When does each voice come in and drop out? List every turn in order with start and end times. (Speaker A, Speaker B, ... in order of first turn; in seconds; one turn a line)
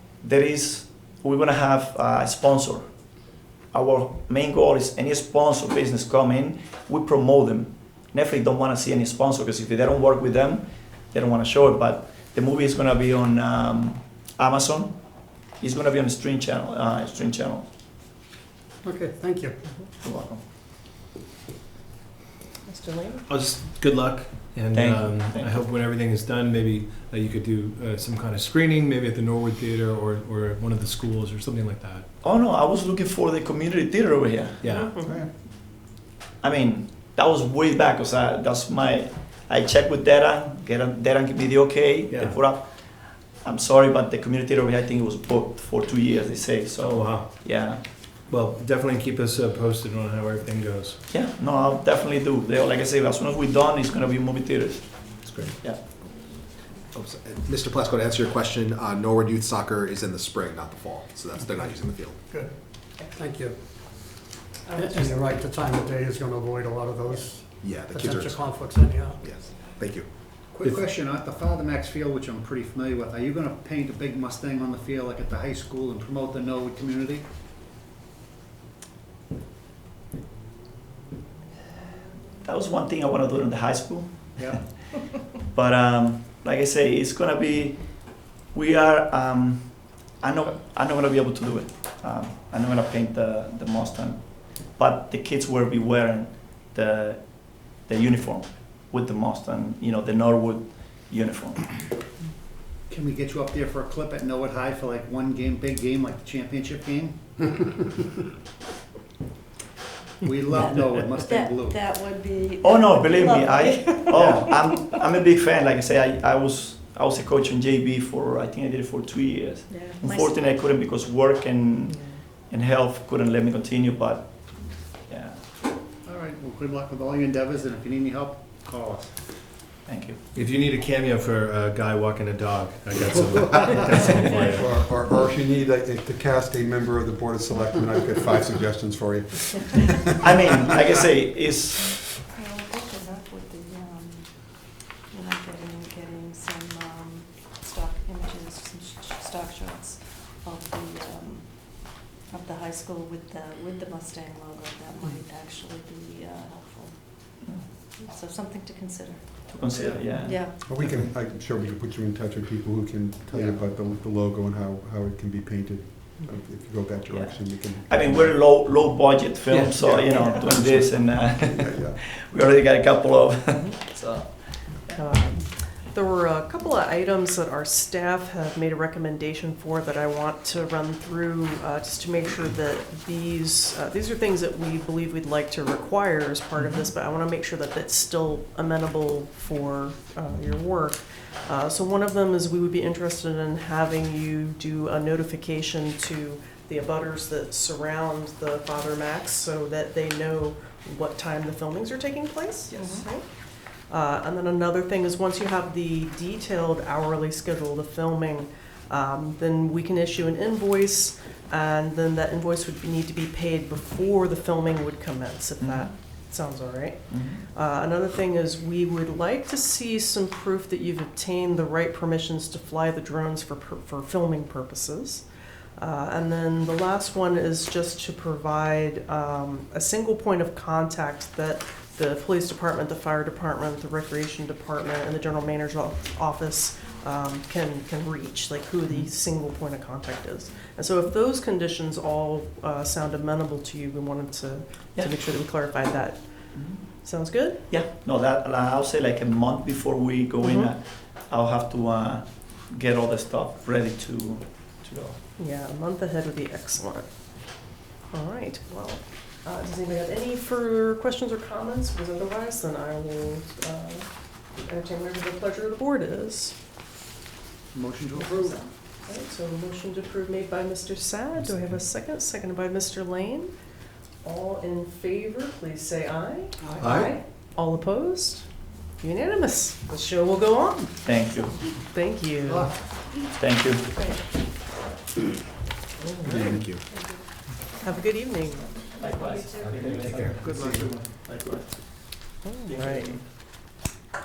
Speaker A: 0.2-2.9
Speaker A: 3.7-17.7
Speaker B: 18.8-19.6
Speaker A: 20.0-20.4
Speaker C: 22.7-23.2
Speaker D: 23.3-32.1
Speaker A: 24.7-25.6
Speaker A: 32.2-34.6
Speaker D: 34.6-35.0
Speaker C: 34.7-35.2
Speaker E: 35.0-35.3
Speaker A: 36.4-47.8
Speaker D: 42.1-42.4
Speaker D: 46.8-47.5
Speaker D: 48.3-51.0
Speaker A: 51.1-55.8
Speaker D: 55.3-55.5
Speaker F: 56.0-62.2
Speaker B: 61.5-69.7
Speaker G: 64.7-65.3
Speaker F: 67.6-68.3
Speaker F: 69.2-70.1
Speaker H: 70.5-77.3
Speaker A: 82.4-84.8
Speaker H: 84.4-84.7
Speaker A: 85.4-101.8
Speaker H: 102.9-107.2
Speaker H: 110.2-112.0
Speaker G: 110.5-115.0
Speaker A: 112.6-125.4
Speaker H: 114.1-114.4
Speaker G: 119.7-120.6
Speaker H: 126.0-129.2
Speaker A: 129.9-130.2
Speaker D: 130.3-134.7
Speaker E: 134.4-140.9
Speaker A: 140.2-142.0
Speaker G: 142.3-159.6
Speaker A: 159.5-160.4
Speaker H: 159.6-160.1
Speaker G: 160.2-160.6
Speaker E: 160.6-168.4
Speaker H: 163.3-163.6
Speaker A: 167.1-175.0
Speaker D: 169.5-169.8
Speaker E: 169.8-172.0
Speaker G: 170.1-170.6
Speaker C: 173.6-173.8
Speaker C: 174.9-203.3
Speaker A: 186.6-186.9
Speaker G: 202.7-203.1
Speaker C: 203.9-225.2
Speaker A: 215.6-215.9
Speaker A: 217.1-217.4
Speaker C: 225.8-247.6
Speaker A: 246.6-246.8
Speaker A: 247.7-255.2
Speaker C: 250.4-250.7
Speaker C: 255.4-257.1
Speaker C: 258.1-266.6
Speaker H: 267.7-268.6
Speaker C: 268.1-273.5
Speaker C: 274.2-278.5
Speaker D: 276.8-277.1
Speaker C: 279.0-281.1
Speaker A: 281.1-281.7
Speaker C: 281.8-282.8
Speaker H: 282.5-282.7
Speaker A: 283.4-283.9
Speaker G: 283.9-284.2
Speaker F: 286.3-286.8
Speaker G: 286.9-287.2
Speaker C: 287.8-288.7
Speaker A: 289.0-293.2
Speaker G: 289.0-290.0
Speaker D: 289.7-290.8
Speaker H: 290.4-290.8
Speaker C: 292.4-293.2